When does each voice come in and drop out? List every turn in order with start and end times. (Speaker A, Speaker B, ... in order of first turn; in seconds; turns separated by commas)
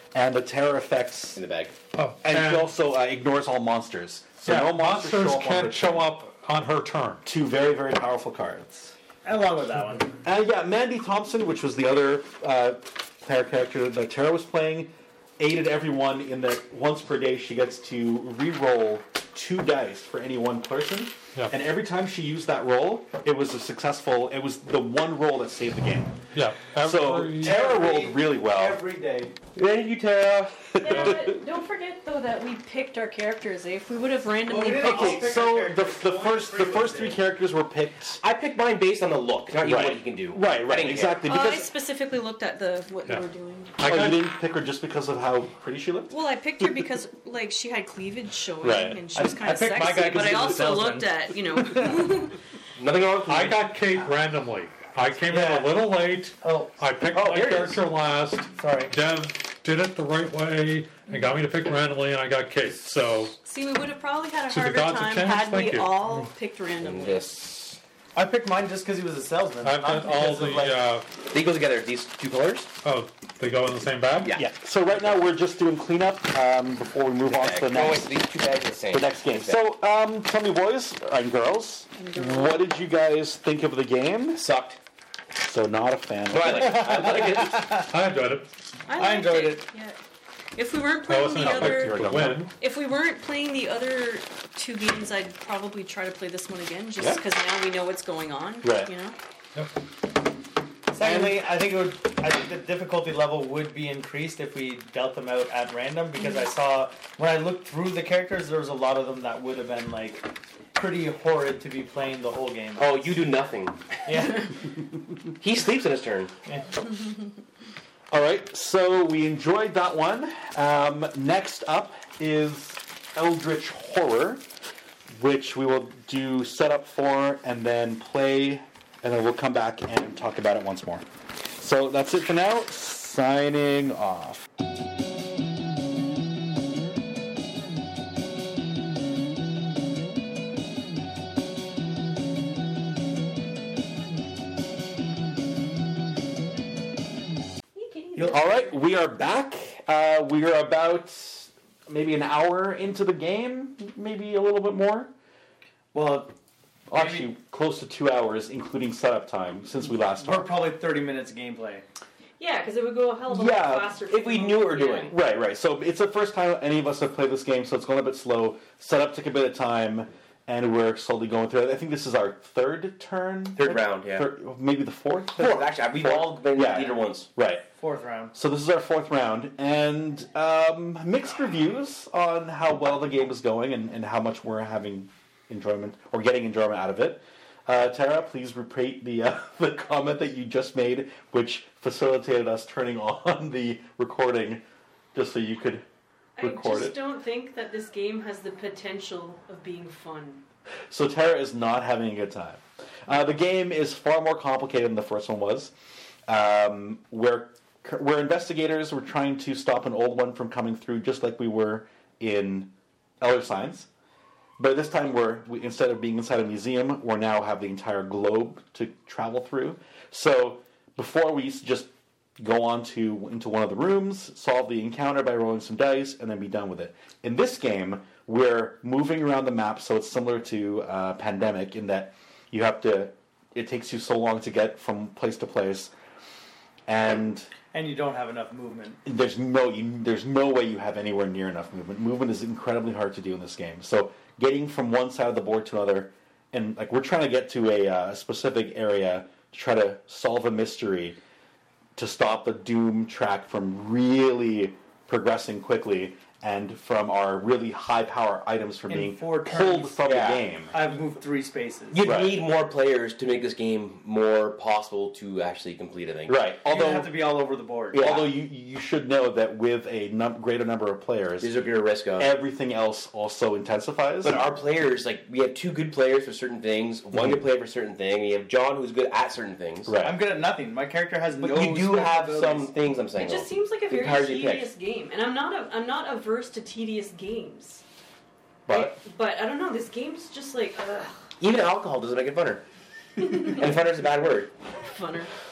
Speaker A: 0.1-1.4, Speaker B: 1.4-1.7, Speaker C: 1.9-2.7, Speaker A: 2.2-6.1, Speaker C: 4.5-7.3, Speaker A: 7.2-8.9, Speaker D: 9.2-10.2, Speaker A: 10.2-28.8, Speaker C: 26.3-27.6, Speaker D: 27.4-29.3, Speaker B: 29.6-30.8, Speaker E: 30.8-35.3, Speaker C: 30.9-31.3, Speaker A: 30.9-31.2, Speaker D: 34.5-37.2, Speaker A: 34.8-38.2, Speaker B: 38.2-41.2, Speaker A: 39.6-41.7, Speaker E: 41.3-43.7, Speaker C: 43.8-44.3, Speaker A: 43.8-46.2, Speaker E: 46.1-52.4, Speaker A: 48.6-49.1, Speaker D: 49.1-52.0, Speaker B: 52.8-53.6, Speaker C: 53.3-63.4, Speaker D: 55.3-55.8, Speaker D: 56.4-57.8, Speaker D: 58.6-58.9, Speaker E: 63.4-67.3, Speaker C: 64.5-66.3, Speaker B: 66.8-67.8, Speaker D: 68.1-70.8, Speaker C: 69.6-71.1, Speaker B: 71.3-72.7, Speaker C: 72.8-74.3, Speaker A: 74.3-78.1, Speaker B: 77.3-79.6, Speaker A: 78.9-84.5, Speaker E: 82.0-82.6, Speaker B: 84.4-84.8, Speaker A: 85.4-87.3, Speaker B: 86.3-87.8, Speaker D: 86.8-87.9, Speaker C: 87.9-88.5, Speaker E: 88.9-90.0, Speaker D: 88.9-89.7, Speaker E: 90.6-99.2, Speaker C: 91.1-92.5, Speaker A: 91.3-92.5, Speaker A: 98.6-98.9, Speaker D: 100.9-113.1, Speaker A: 101.0-101.4, Speaker B: 112.8-114.0, Speaker D: 114.1-114.5, Speaker B: 115.4-116.3, Speaker A: 118.1-124.4, Speaker A: 125.1-134.5, Speaker E: 147.7-148.8, Speaker D: 148.2-148.5, Speaker A: 148.3-155.1, Speaker D: 155.9-156.3, Speaker A: 156.9-160.5, Speaker D: 156.9-157.3, Speaker D: 160.1-161.8, Speaker E: 162.4-165.1, Speaker A: 163.3-164.0, Speaker B: 164.1-165.2, Speaker A: 165.1-177.7, Speaker B: 173.6-174.3, Speaker B: 175.4-177.3, Speaker D: 177.8-178.3, Speaker A: 178.3-194.6, Speaker A: 195.1-195.8, Speaker E: 196.4-200.4, Speaker A: 196.4-197.0, Speaker A: 200.9-205.7, Speaker A: 206.3-213.9, Speaker A: 214.6-235.9, Speaker A: 236.9-237.5, Speaker D: 237.7-239.0, Speaker A: 239.1-251.2, Speaker A: 252.0-260.8, Speaker D: 258.9-260.0, Speaker B: 260.1-260.4, Speaker D: 260.7-262.0, Speaker B: 261.9-266.4, Speaker A: 262.0-262.4, Speaker A: 266.3-267.1, Speaker D: 266.6-268.2, Speaker B: 267.9-268.3, Speaker A: 267.9-271.5, Speaker B: 271.4-272.3, Speaker A: 272.2-274.4, Speaker B: 274.2-279.9, Speaker A: 277.1-277.4, Speaker A: 279.9-280.2, Speaker D: 280.0-282.7, Speaker B: 281.4-284.7, Speaker E: 283.2-287.8, Speaker A: 288.7-289.0, Speaker E: 288.7-291.2, Speaker B: 291.4-292.6, Speaker E: 293.2-293.6, Speaker B: 293.2-294.5, Speaker E: 294.8-295.3